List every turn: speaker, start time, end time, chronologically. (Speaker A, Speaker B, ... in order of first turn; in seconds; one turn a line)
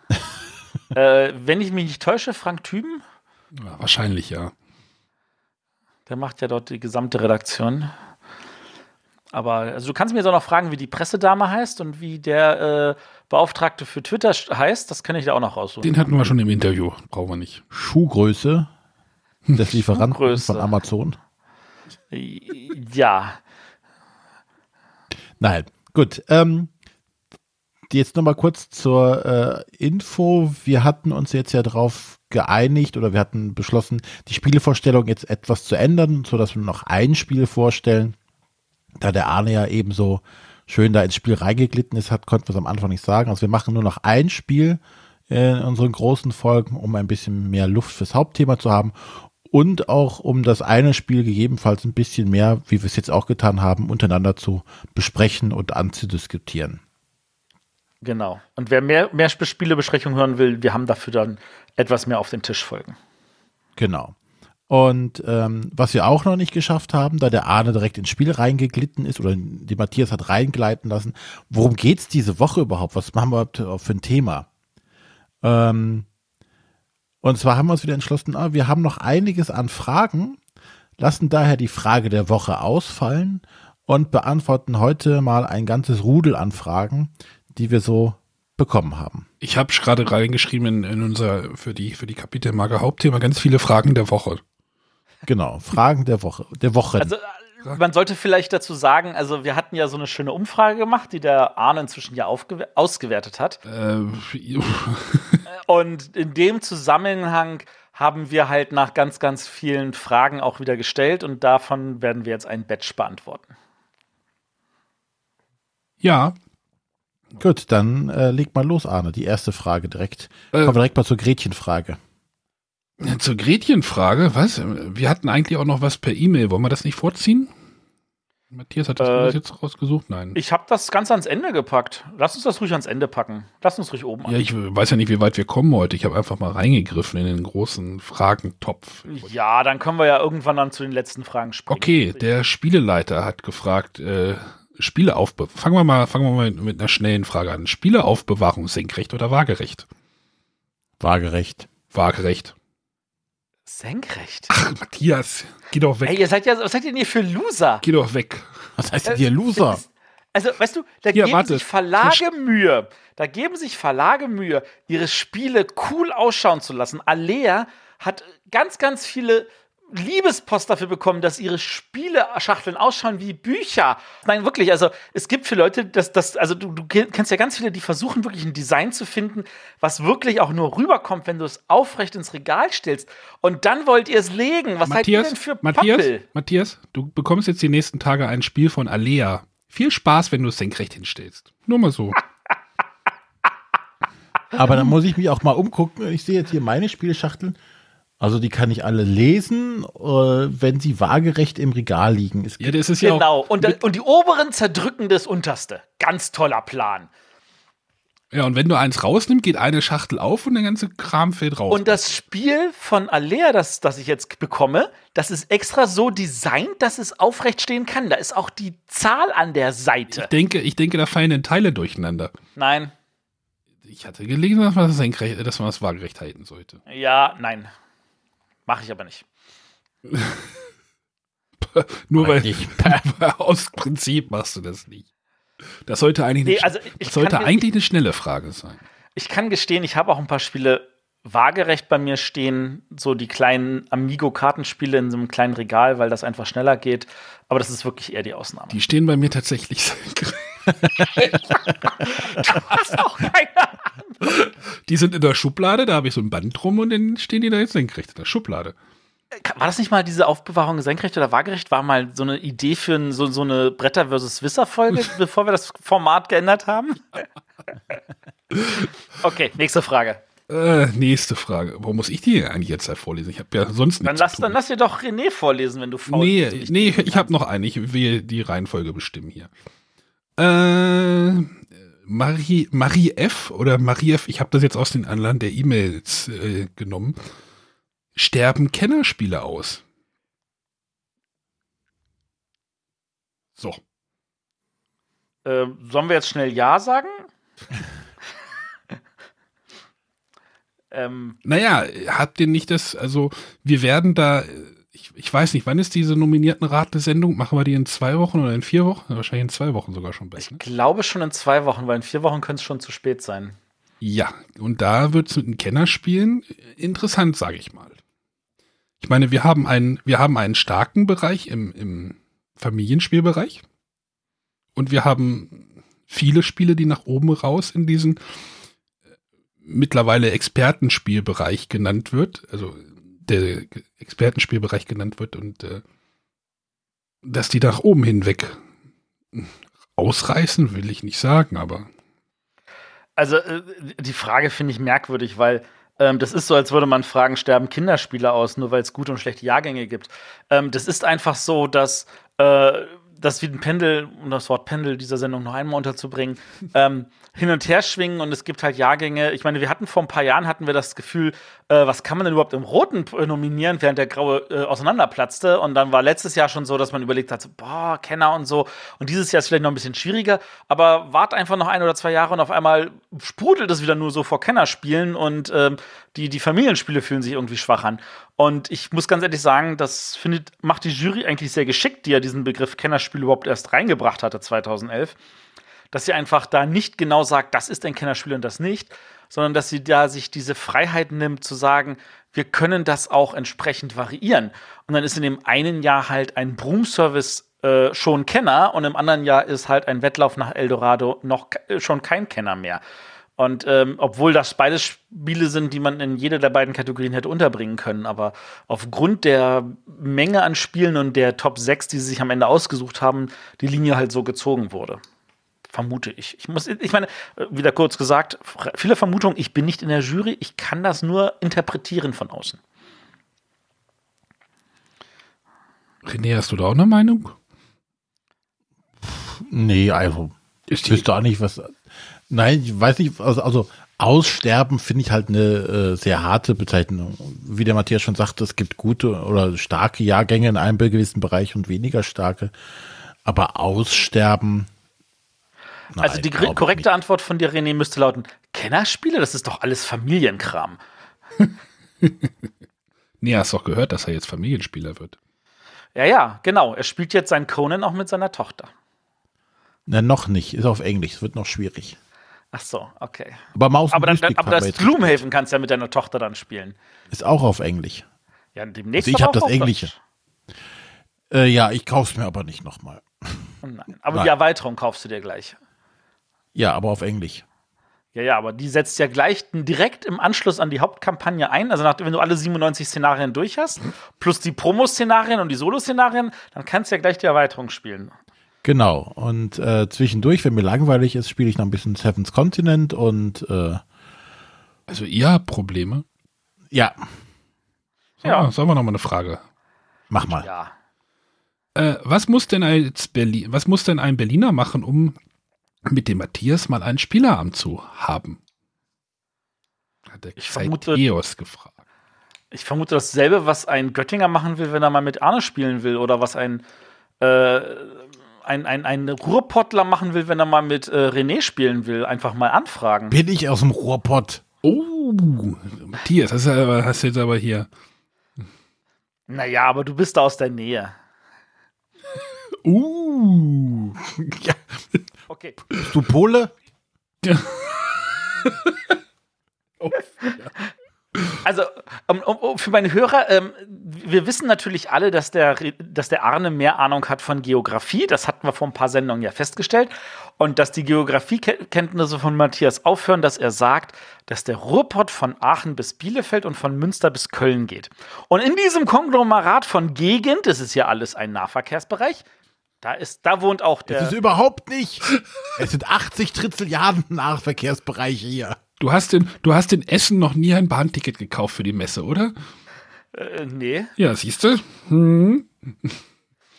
Speaker A: 0.9-3.0
Speaker B: 3.5-4.5
Speaker A: 6.1-7.9
Speaker A: 9.3-16.1
Speaker B: 15.8-17.6
Speaker C: 17.7-18.7
Speaker C: 19.5-21.2
Speaker A: 19.9-20.7
Speaker A: 22.1-23.4
Speaker C: 25.4-26.7
Speaker C: 27.9-38.1
Speaker C: 39.0-56.8
Speaker A: 58.0-63.0
Speaker C: 63.8-64.1
Speaker C: 64.7-74.5
Speaker C: 75.4-76.1
Speaker C: 77.2-80.4
Speaker C: 81.0-89.3
Speaker B: 89.4-94.4
Speaker C: 95.2-97.1
Speaker A: 97.0-103.6
Speaker B: 103.7-105.4
Speaker A: 105.5-113.5
Speaker B: 116.0-116.3
Speaker C: 117.4-122.0
Speaker B: 123.0-127.5
Speaker B: 128.5-130.4
Speaker A: 129.0-129.4
Speaker A: 130.3-134.4
Speaker B: 134.2-139.3
Speaker A: 139.1-142.2
Speaker B: 141.7-149.8
Speaker C: 151.0-151.7
Speaker B: 151.9-152.5
Speaker A: 153.7-154.5
Speaker B: 154.5-156.2
Speaker A: 156.0-157.8
Speaker B: 157.8-158.5
Speaker C: 158.8-159.8
Speaker A: 159.0-186.2
Speaker B: 161.1-162.2
Speaker B: 184.8-192.2
Speaker C: 194.5-197.6
Speaker C: 198.2-202.8
Speaker B: 202.6-203.8
Speaker A: 203.0-207.1
Speaker B: 208.3-212.2
Speaker A: 211.7-220.3
Speaker B: 220.1-222.3
Speaker A: 222.6-222.9
Speaker B: 223.8-226.8
Speaker A: 226.9-227.7
Speaker A: 228.7-229.2
Speaker B: 230.1-230.6
Speaker B: 231.6-235.1
Speaker C: 232.2-233.0
Speaker B: 235.8-238.8
Speaker A: 236.4-237.6
Speaker A: 239.2-248.8
Speaker B: 248.7-251.6
Speaker A: 252.0-253.8
Speaker B: 252.5-252.8
Speaker B: 254.2-258.7
Speaker A: 259.4-267.2
Speaker B: 268.5-268.9
Speaker A: 269.2-270.2
Speaker B: 270.5-274.5
Speaker A: 274.0-277.3
Speaker B: 276.1-279.5
Speaker B: 280.4-287.2
Speaker B: 288.1-289.8
Speaker A: 295.4-297.3
Speaker A: 300.9-301.4
Speaker B: 301.4-310.6
Speaker A: 310.4-313.6
Speaker B: 314.0-318.0
Speaker B: 319.0-323.6
Speaker B: 324.8-328.2
Speaker B: 329.6-335.8
Speaker B: 337.2-338.6
Speaker B: 339.3-341.9
Speaker A: 343.2-385.1
Speaker A: 385.9-402.8
Speaker A: 403.4-415.0
Speaker A: 415.7-422.6
Speaker B: 426.0-427.4
Speaker C: 429.0-430.3
Speaker B: 430.7-431.0
Speaker C: 430.8-442.5
Speaker C: 443.2-444.7
Speaker C: 445.9-446.9
Speaker A: 446.0-450.8
Speaker B: 452.0-452.3
Speaker B: 453.2-455.1
Speaker A: 455.9-458.7
Speaker C: 459.9-462.0
Speaker A: 462.5-466.8
Speaker C: 463.5-465.2
Speaker C: 467.1-468.0
Speaker A: 468.6-469.9
Speaker C: 469.0-469.9
Speaker C: 471.3-473.5
Speaker A: 473.6-475.6
Speaker C: 476.5-477.4
Speaker A: 478.1-488.1
Speaker C: 488.6-493.8
Speaker B: 494.9-496.0
Speaker C: 496.7-497.0
Speaker B: 498.2-499.4
Speaker C: 500.1-500.5
Speaker A: 500.3-500.7
Speaker B: 501.8-505.1
Speaker B: 505.9-508.4
Speaker B: 510.1-511.7
Speaker A: 510.4-511.0
Speaker A: 512.5-516.6
Speaker A: 517.2-523.1
Speaker C: 523.1-524.4
Speaker B: 524.6-527.7
Speaker A: 529.3-530.9
Speaker B: 532.6-534.0
Speaker C: 534.3-534.6
Speaker A: 535.3-535.6
Speaker C: 535.8-536.5
Speaker B: 537.2-538.7
Speaker B: 539.8-540.5
Speaker A: 541.4-562.2
Speaker A: 562.8-564.1
Speaker C: 563.9-568.6
Speaker B: 568.8-572.3
Speaker A: 573.1-573.9
Speaker B: 574.0-576.0